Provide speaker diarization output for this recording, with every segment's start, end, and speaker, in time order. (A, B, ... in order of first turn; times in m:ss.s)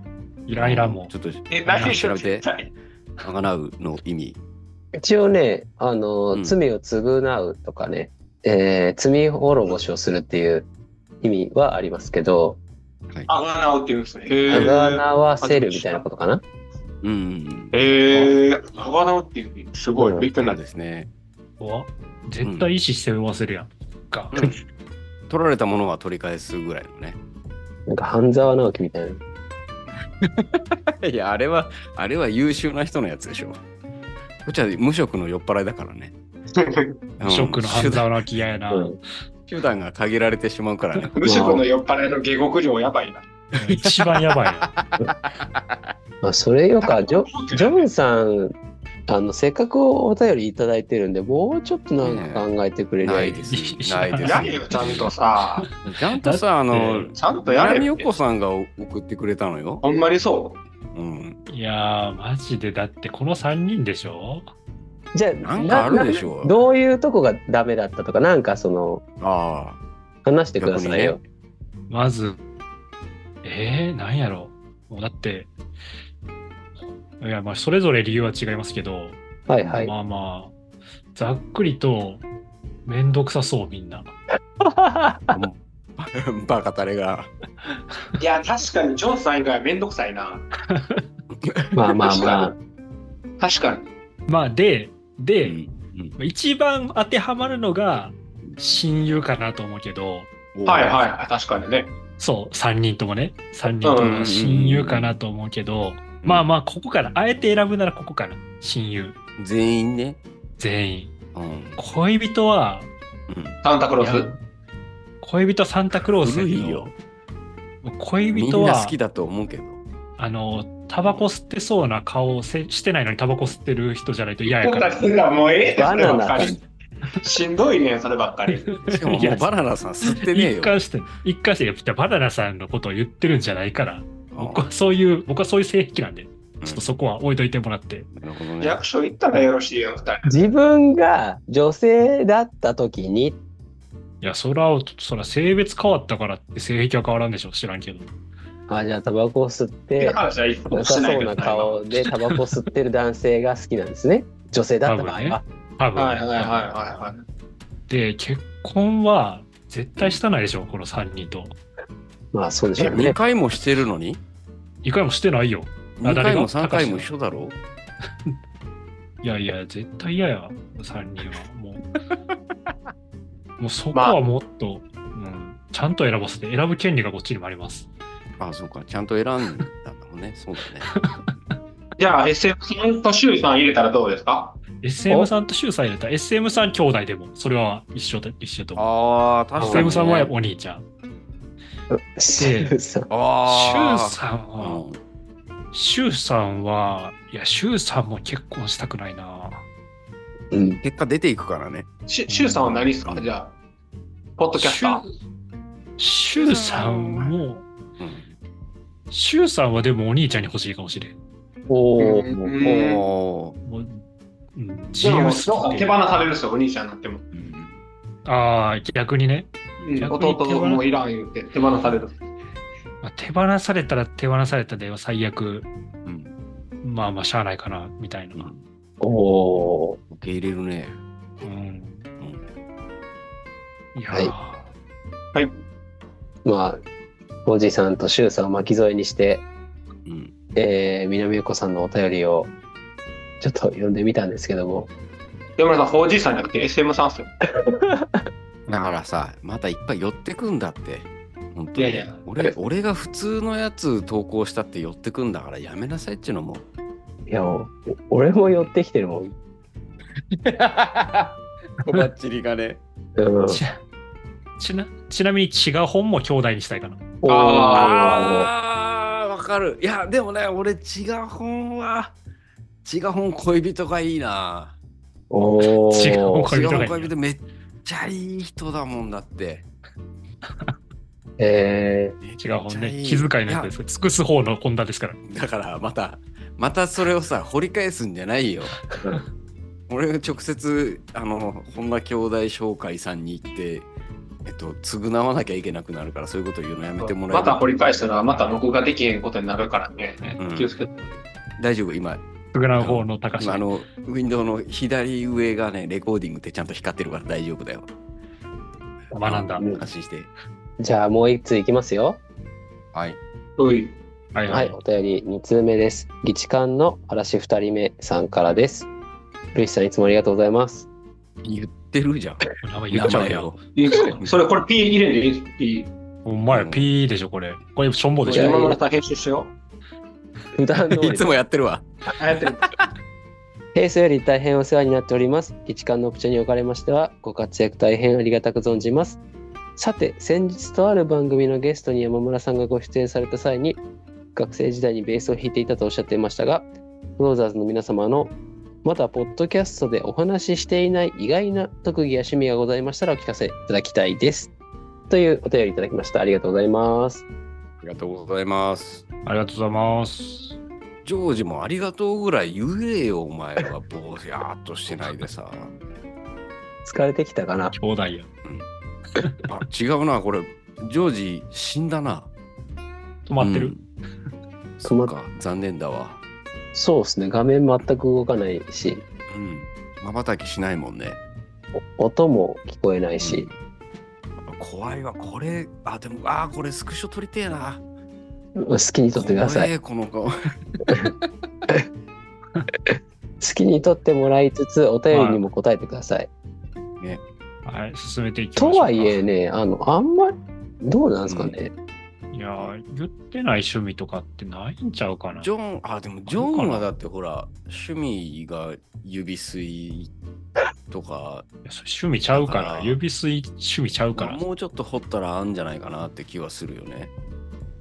0:00.5-0:01.1 A
0:00.6-0:02.5 B
0:01.5-0:02.7 C
0:01.7-0:02.0 A
0:03.2-0:04.4 B
0:05.0-0:10.7 D
0:11.2-0:12.6 D
0:13.3-0:16.1 C
0:14.5-0:16.4 D
0:17.0-0:17.8 B
0:17.7-0:20.6 C
0:20.0-0:20.3 D
0:20.4-0:21.1 B
0:21.6-0:24.3 A
0:22.4-0:22.7 B
0:24.3-0:24.6 B
0:25.3-0:27.2 B
0:27.9-0:29.2 D
0:30.2-0:33.6 B
0:34.4-0:36.1 B
0:36.6-0:37.0 C
0:37.2-0:38.1 B
0:37.2-0:39.0 A
0:39.5-0:41.4 B
0:41.2-0:43.2 C
0:41.2-0:41.6 D
0:43.6-0:44.7 A
0:43.7-0:45.9 B
0:46.2-0:48.6 D
0:46.8-0:47.9 C
0:49.1-0:53.4 D
0:52.0-0:52.5 B
0:53.0-0:55.1 B
0:53.5-0:54.9 A
0:54.2-0:55.7 C
0:55.8-0:59.8 B
0:56.2-0:57.2 A
0:57.2-0:58.1 C
0:59.8-1:00.6 C
1:00.9-1:01.4 B
1:01.5-1:04.5 A
1:05.1-1:09.0 D
1:05.4-1:06.6 B
1:09.2-1:09.8 B
1:10.2-1:11.2 D
1:10.6-1:11.2 B
1:11.9-1:12.4 A
1:13.4-1:15.5 A
1:17.2-1:20.6 A
1:19.5-1:19.9 D
1:21.2-1:22.2 A
1:22.9-1:24.2 A
1:24.7-1:25.4 D
1:25.3-1:27.3 B
1:28.2-1:30.5 C
1:30.7-1:31.0 A
1:31.4-1:32.3 B
1:31.7-1:32.6 D
1:32.1-1:32.5 C
1:33.4-1:33.9 C
1:34.3-1:35.6 A
1:35.4-1:36.2 B
1:36.2-1:40.3 A
1:40.5-1:41.0 B
1:40.7-1:41.9 C
1:42.2-1:49.2 A
1:43.8-1:44.3 C
1:44.0-1:45.2 B
1:46.2-1:46.5 B
1:49.4-1:50.2 B
1:50.6-1:51.1 A
1:51.3-1:51.8 B
1:51.8-1:52.9 A
1:53.3-1:53.6 B
1:53.6-1:54.3 C
1:54.0-1:54.4 A
1:55.2-1:56.9 A
1:56.2-1:56.9 B
1:57.8-1:59.0 A
1:58.3-1:59.8 B
2:00.2-2:05.1 A
2:01.0-2:01.3 B
2:04.5-2:06.6 C
2:05.8-2:06.6 D
2:07.2-2:08.7 C
2:08.5-2:18.1 A
2:08.8-2:10.8 B
2:14.3-2:14.6 B
2:16.6-2:16.9 B
2:18.1-2:18.8 B
2:18.6-2:20.4 C
2:20.3-2:23.4 D
2:24.2-2:28.1 A
2:28.7-2:30.2 D
2:30.0-2:31.8 C
2:30.7-2:35.4 D
2:32.0-2:32.4 A
2:34.9-2:36.7 A
2:36.0-2:37.2 C
2:37.9-2:41.6 A
2:42.3-2:43.2 D
2:42.8-2:44.2 B
2:44.8-2:47.1 A
2:46.0-2:47.6 B
2:49.2-2:51.8 A
2:53.6-2:57.9 A
2:58.4-3:00.9 B
3:02.0-3:04.6 C
3:04.8-3:08.9 A
3:08.8-3:10.3 B
3:09.6-3:09.9 D
3:09.7-3:10.8 A
3:11.9-3:13.1 D
3:12.3-3:12.7 A
3:13.1-3:15.0 B
3:13.5-3:14.8 A
3:15.7-3:19.6 A
3:20.5-3:20.8 D
3:20.8-3:21.9 B
3:22.1-3:23.6 C
3:22.3-3:22.8 A
3:22.7-3:23.3 B
3:24.4-3:25.0 C
3:24.6-3:25.0 A
3:26.0-3:27.7 A
3:26.3-3:27.4 B
3:28.0-3:28.4 B
3:29.1-3:31.2 A
3:31.7-3:32.9 D
3:32.0-3:33.0 C
3:32.6-3:33.6 B
3:33.6-3:34.0 A
3:34.6-3:36.0 A
3:35.0-3:37.2 C
3:37.3-3:37.8 B
3:38.2-3:40.8 A
3:39.8-3:42.2 C
3:43.0-3:45.7 A
3:46.0-3:46.3 B
3:46.8-3:48.5 A
3:48.4-3:48.6 B
3:49.0-3:50.0 D
3:50.1-3:51.0 B
3:51.4-3:52.1 A
3:54.0-3:54.7 A
3:56.4-3:56.8 D
3:57.4-3:59.4 D
4:00.1-4:00.3 B
4:00.6-4:02.5 D
4:03.4-4:04.9 D
4:05.6-4:07.3 C
4:07.6-4:08.1 D
4:08.7-4:08.9 A
4:08.7-4:16.6 B
4:11.8-4:12.2 C
4:17.3-4:19.3 D
4:20.3-4:22.8 B
4:23.2-4:23.6 D
4:23.5-4:23.8 A
4:24.6-4:27.0 A
4:27.2-4:28.5 D
4:27.3-4:28.5 C
4:27.7-4:32.2 B
4:32.8-4:34.8 B
4:35.3-4:36.5 D
4:35.9-4:37.1 A
4:36.4-4:39.7 B
4:41.4-4:42.2 D
4:42.2-4:43.7 B
4:42.4-4:45.2 A
4:45.2-4:48.8 B
4:49.9-4:53.9 B
4:54.4-4:57.6 B
4:57.0-5:01.0 C
5:00.4-5:00.7 B
5:01.6-5:02.2 B
5:02.5-5:03.7 A
5:02.8-5:07.9 B
5:09.1-5:09.6 A
5:09.2-5:10.3 B
5:09.6-5:09.8 D
5:10.8-5:12.2 D
5:12.9-5:13.2 B
5:13.6-5:14.0 C
5:14.3-5:14.8 A
5:14.5-5:18.9 D
5:19.5-5:20.9 D
5:21.4-5:23.6 B
5:22.6-5:24.2 A
5:23.8-5:25.9 C
5:26.2-5:28.7 A
5:26.5-5:26.9 B
5:28.3-5:28.8 D
5:28.3-5:29.6 C
5:30.6-5:31.4 D
5:31.0-5:31.9 B
5:32.2-5:32.7 C
5:33.7-5:39.2 D
5:39.8-5:43.8 D
5:44.4-5:54.5 D
5:55.1-5:57.2 D
5:57.8-5:59.0 B
5:59.2-6:00.6 A
6:01.0-6:05.7 B
6:06.8-6:07.8 D
6:07.8-6:08.3 A
6:09.5-6:12.3 B
6:13.3-6:13.8 A
6:13.4-6:13.8 B
6:14.8-6:16.2 B
6:14.8-6:15.1 D
6:16.7-6:19.0 D
6:19.3-6:21.2 B
6:22.0-6:23.5 D
6:23.2-6:23.5 B
6:24.4-6:27.8 B
6:28.6-6:29.7 D
6:29.1-6:30.3 B
6:32.9-6:36.3 D
6:35.1-6:35.5 A
6:37.6-6:39.2 A
6:38.6-6:41.7 D
6:41.3-6:41.6 B
6:42.3-6:45.5 A
6:45.4-6:50.1 B
6:46.3-6:46.9 A
6:50.9-6:51.5 B
6:51.6-6:54.4 A
6:52.3-6:53.0 B
6:54.1-6:57.1 B